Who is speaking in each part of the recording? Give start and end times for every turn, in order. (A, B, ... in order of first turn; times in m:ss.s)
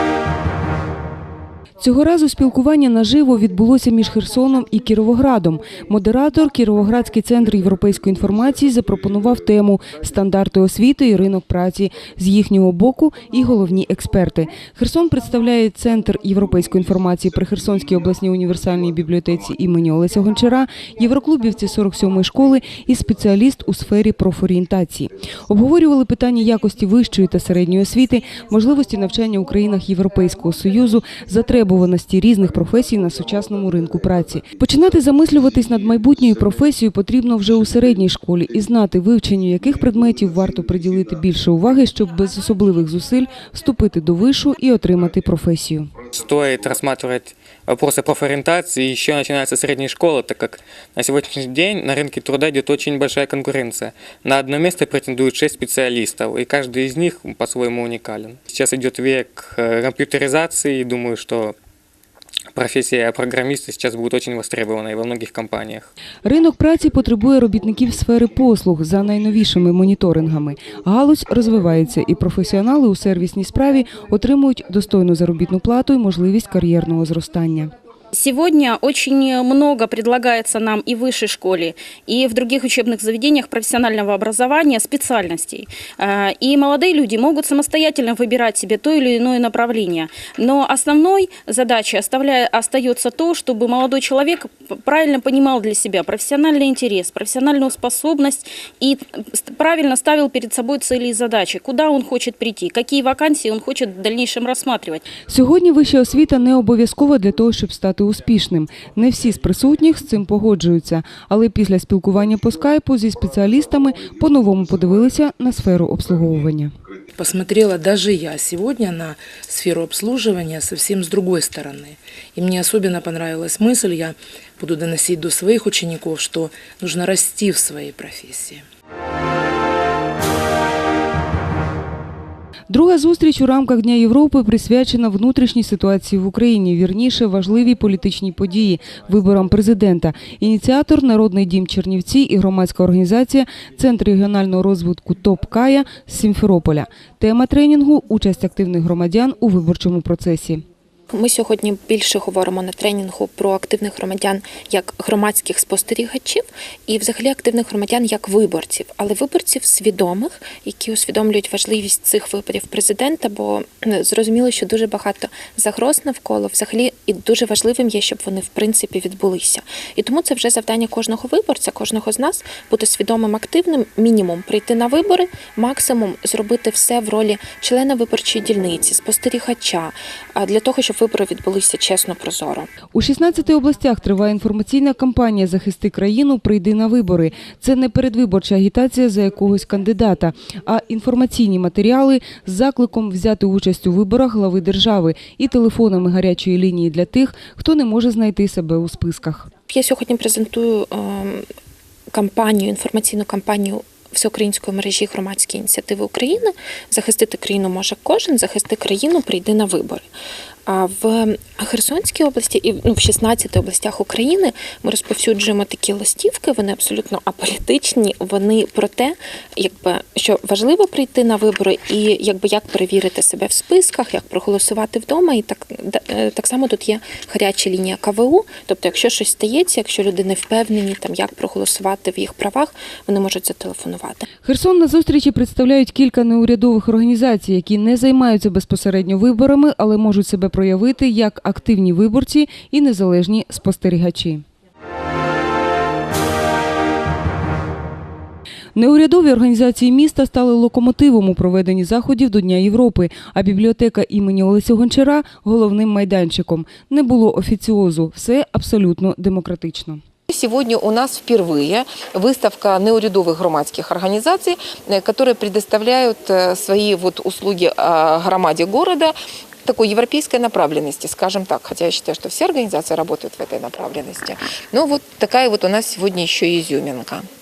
0:01.8-0:45.9 A
0:46.1-1:01.6 B
1:02.5-1:05.9 B
1:06.2-1:17.7 A
1:18.1-1:45.0 C
1:45.3-1:56.7 A
1:57.2-2:08.6 D
2:12.7-2:30.6 A
2:31.1-3:02.7 E
3:02.9-3:19.5 A
3:19.7-3:21.4 E
3:22.1-3:30.1 E
3:30.7-3:54.3 E
3:54.4-4:04.4 A
4:08.8-4:20.0 A
4:20.3-4:37.3 F